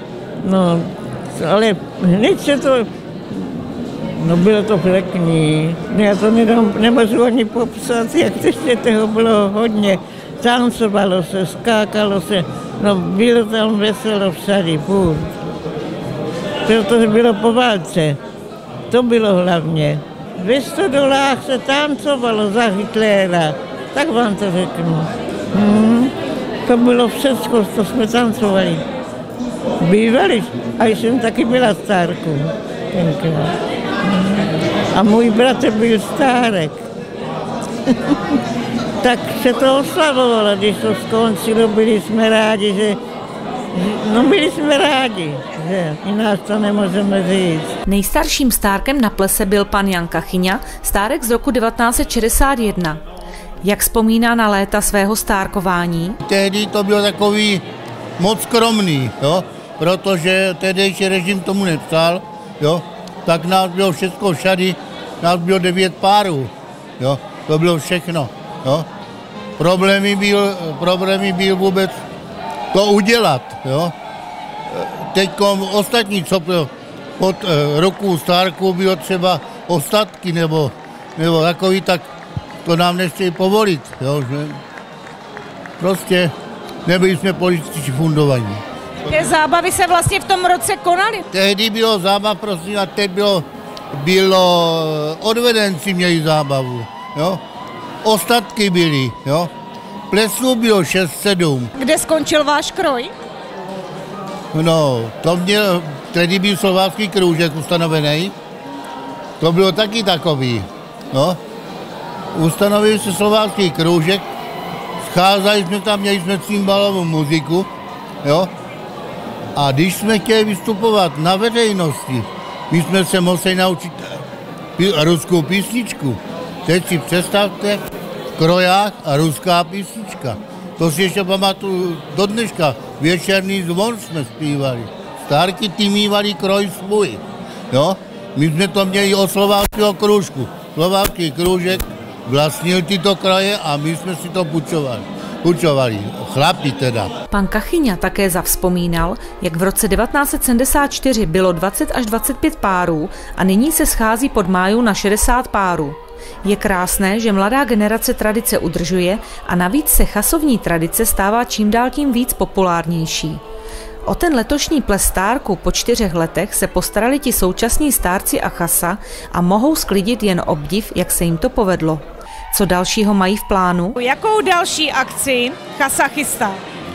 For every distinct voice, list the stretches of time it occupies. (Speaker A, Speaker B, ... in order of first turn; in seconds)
Speaker A: 0.4-15.3, 16.7-18.2, 18.9-26.1, 26.6-28.9, 29.8-36.8, 37.9-38.4, 39.0-43.0, 43.7-47.7
Speaker B: 47.9-53.0, 53.6-56.2, 147.3-163.4, 164.1-173.9
Speaker C: 56.2-57.6, 58.2-68.9, 69.6-72.0, 72.7-73.9, 74.7-82.1, 82.6-84.6, 85.8-86.3, 86.8-88.6, 91.3-97.4, 98.0-99.5, 100.1-101.7, 104.5-108.3, 109.4-111.4, 112.3-114.2, 115.0-117.7, 118.2-118.5, 119.5-124.2, 124.8-127.8, 128.4-147.1
Speaker D: 89.0-91.2, 101.8-103.1, 173.9-176.6